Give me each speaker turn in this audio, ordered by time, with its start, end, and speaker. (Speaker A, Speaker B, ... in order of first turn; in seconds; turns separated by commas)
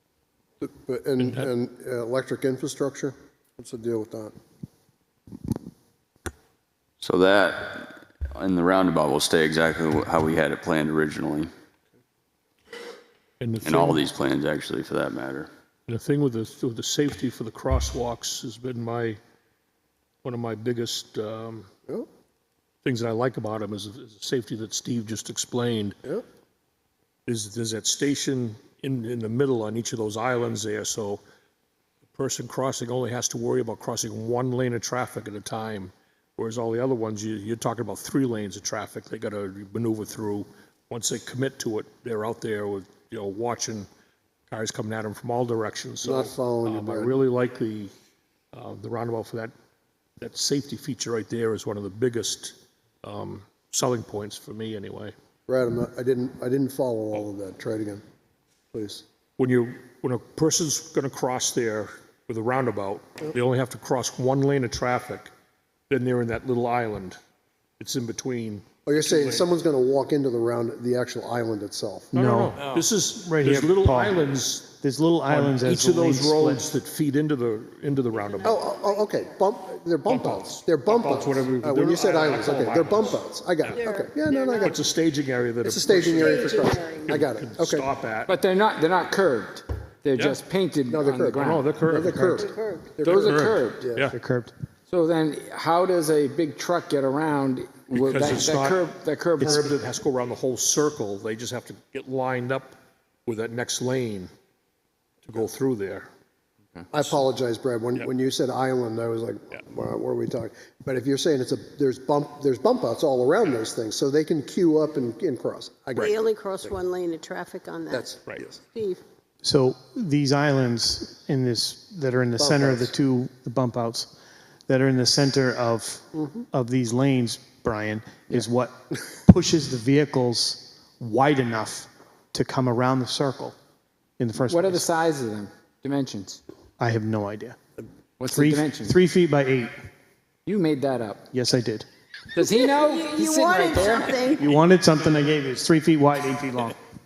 Speaker A: 0.6-4.3, Speaker B: 7.0-11.5, Speaker C: 13.4-14.0, Speaker B: 13.6-15.5, Speaker C: 15.9-19.2, Speaker C: 20.2-21.7, Speaker C: 22.8-26.0, Speaker C: 27.2-31.2, Speaker C: 32.1-43.9, Speaker C: 44.5-47.9, Speaker A: 46.0-47.2, Speaker C: 48.5-49.5, Speaker C: 50.2-55.1, Speaker A: 55.5-58.0, Speaker A: 58.7-59.0, Speaker C: 59.4-65.3, Speaker C: 65.9-67.2, Speaker C: 67.8-69.5, Speaker A: 68.8-72.1, Speaker C: 72.1-74.7, Speaker D: 72.1-72.6, Speaker D: 73.1-76.6, Speaker C: 75.3-78.6, Speaker E: 78.2-79.3, Speaker A: 78.4-84.8, Speaker C: 80.1-83.8, Speaker E: 83.7-84.8, Speaker C: 84.6-88.3, Speaker A: 85.6-87.9, Speaker E: 86.0-87.2, Speaker F: 88.3-91.8, Speaker C: 90.1-90.4, Speaker A: 90.9-94.1, Speaker C: 91.4-92.5, Speaker E: 92.4-92.9, Speaker F: 93.0-93.9, Speaker C: 93.2-94.1, Speaker D: 94.1-94.5, Speaker F: 94.9-99.7, Speaker C: 97.9-104.3, Speaker C: 105.2-106.1, Speaker A: 106.9-116.1, Speaker E: 116.0-119.0, Speaker A: 117.9-118.6, Speaker D: 119.4-124.1, Speaker A: 122.4-122.9, Speaker D: 124.7-133.5, Speaker D: 134.2-134.8, Speaker F: 134.5-136.4, Speaker D: 136.8-137.6, Speaker F: 138.2-139.0, Speaker D: 138.3-139.7, Speaker F: 140.4-141.2, Speaker D: 141.3-141.8, Speaker F: 142.3-144.3, Speaker E: 142.6-144.5, Speaker D: 144.4-146.8